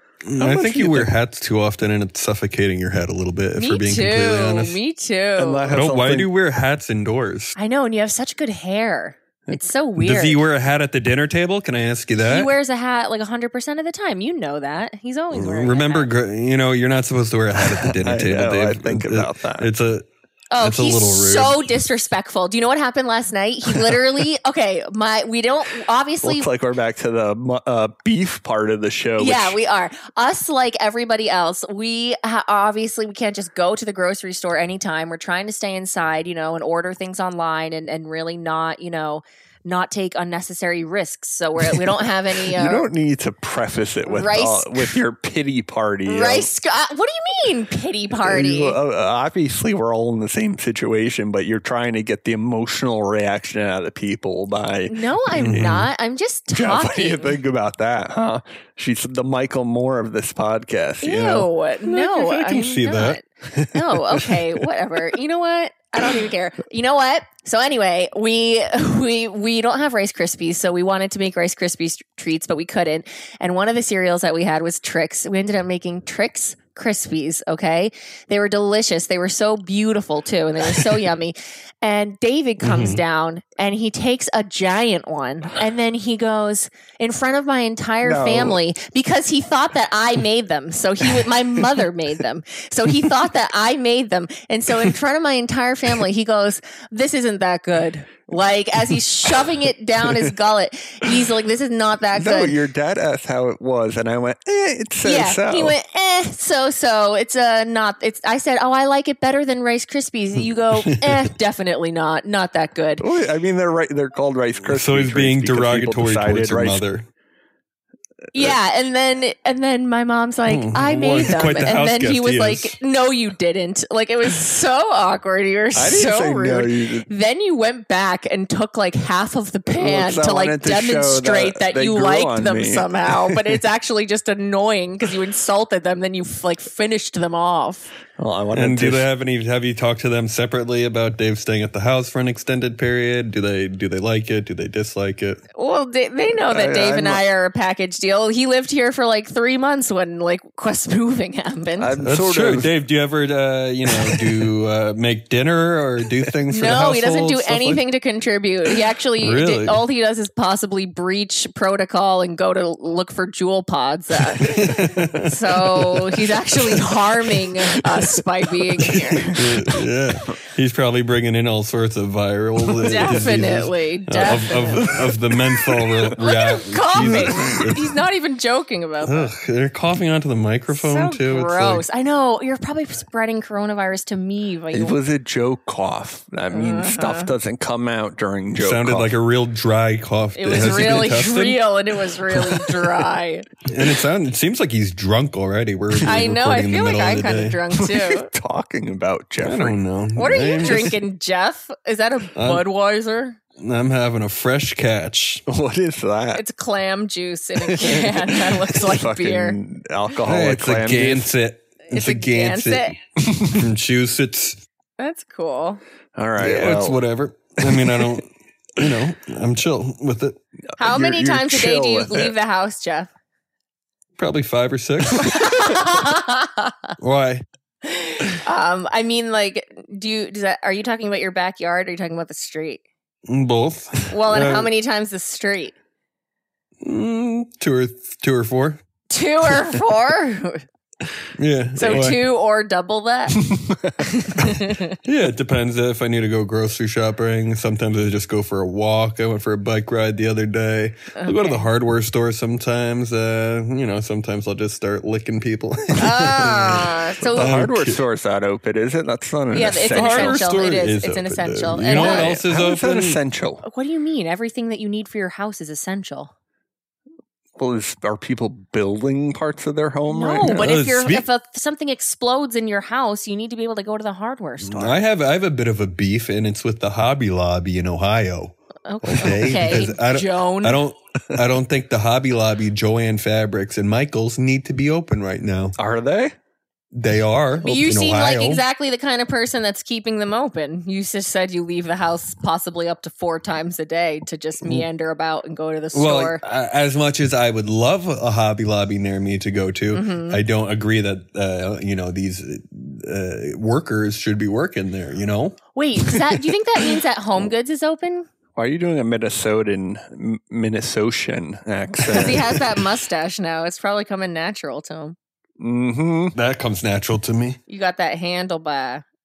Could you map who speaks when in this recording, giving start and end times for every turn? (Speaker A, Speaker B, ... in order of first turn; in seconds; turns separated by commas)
Speaker A: 0.2-4.8, Speaker B: 0.4-1.1, Speaker C: 3.5-5.7, Speaker B: 5.4-6.3, Speaker A: 5.7-7.5, Speaker C: 7.6-10.4, Speaker A: 10.0-12.5, Speaker C: 12.2-16.1, Speaker A: 15.3-20.1, Speaker B: 17.7-19.7, Speaker C: 20.5-26.5, Speaker A: 20.6-21.6, Speaker B: 26.2-29.6, Speaker C: 29.2-42.9, Speaker B: 42.5-46.5, Speaker C: 44.1-45.0, Speaker C: 46.0-48.8, Speaker B: 48.1-55.0, Speaker C: 54.9-57.4, Speaker A: 55.3-55.9, Speaker B: 56.5-61.5, Speaker C: 61.0-102.5, Speaker A: 61.9-63.2, Speaker A: 82.6-83.0, Speaker B: 88.0-88.6, Speaker B: 102.1-105.8, Speaker C: 105.0-113.0, Speaker A: 110.8-111.2, Speaker B: 113.0-116.8, Speaker A: 114.7-117.1, Speaker C: 118.3-137.9, Speaker A: 120.5-122.8, Speaker B: 125.7-127.1, Speaker B: 129.7-133.4, Speaker B: 138.2-139.0, Speaker A: 138.5-145.4, Speaker C: 145.5-151.9, Speaker B: 146.5-147.2, Speaker B: 151.8-152.7, Speaker A: 152.0-157.8, Speaker B: 154.0-154.3, Speaker C: 156.5-164.5, Speaker A: 159.2-159.8, Speaker A: 164.4-165.3, Speaker B: 164.8-165.2, Speaker C: 165.2-169.4, Speaker B: 168.9-169.4, Speaker A: 169.3-177.9, Speaker B: 172.8-173.3, Speaker C: 172.8-174.9, Speaker B: 174.8-176.1, Speaker C: 176.2-179.3, Speaker B: 176.9-177.7, Speaker A: 179.0-181.8, Speaker C: 180.7-185.0, Speaker B: 184.7-189.2, Speaker C: 186.5-187.3, Speaker A: 188.6-191.7, Speaker C: 190.3-193.5, Speaker B: 190.5-191.1, Speaker A: 193.7-197.6, Speaker C: 196.1-198.3, Speaker B: 197.7-199.8, Speaker A: 199.4-200.9, Speaker C: 200.2-203.4, Speaker B: 200.6-200.9, Speaker A: 202.3-202.6, Speaker A: 203.6-205.4, Speaker B: 205.5-206.4, Speaker C: 206.3-209.6, Speaker B: 207.6-211.3, Speaker A: 210.2-212.9, Speaker C: 211.9-212.9, Speaker B: 213.2-213.6, Speaker A: 213.5-214.6, Speaker C: 215.0-215.8, Speaker B: 216.2-217.0, Speaker A: 216.4-220.4, Speaker B: 217.6-218.2, Speaker B: 220.7-222.3, Speaker C: 220.8-223.1, Speaker A: 224.2-225.8, Speaker C: 225.2-226.7, Speaker A: 227.0-227.4, Speaker C: 227.8-232.8, Speaker A: 233.3-234.7, Speaker C: 234.1-235.7, Speaker A: 236.8-238.8, Speaker C: 239.1-240.6, Speaker A: 241.3-242.2, Speaker C: 241.8-243.4, Speaker B: 241.8-242.1, Speaker B: 243.4-244.0, Speaker C: 244.0-244.9, Speaker A: 245.0-258.0, Speaker C: 251.1-251.6, Speaker C: 256.0-257.5, Speaker B: 257.2-260.5, Speaker C: 259.5-262.3, Speaker A: 259.7-263.2, Speaker B: 261.9-263.6, Speaker C: 263.6-266.3, Speaker B: 267.6-270.7, Speaker C: 270.1-274.9, Speaker A: 270.4-271.2, Speaker A: 274.6-285.7, Speaker C: 278.9-280.8, Speaker B: 285.8-286.3, Speaker A: 286.9-288.6, Speaker C: 287.6-296.4, Speaker A: 295.9-305.6, Speaker C: 299.9-300.4, Speaker C: 305.7-308.3, Speaker B: 308.6-312.6, Speaker C: 312.1-315.1, Speaker B: 315.6-316.3, Speaker A: 316.3-317.6, Speaker C: 317.7-319.0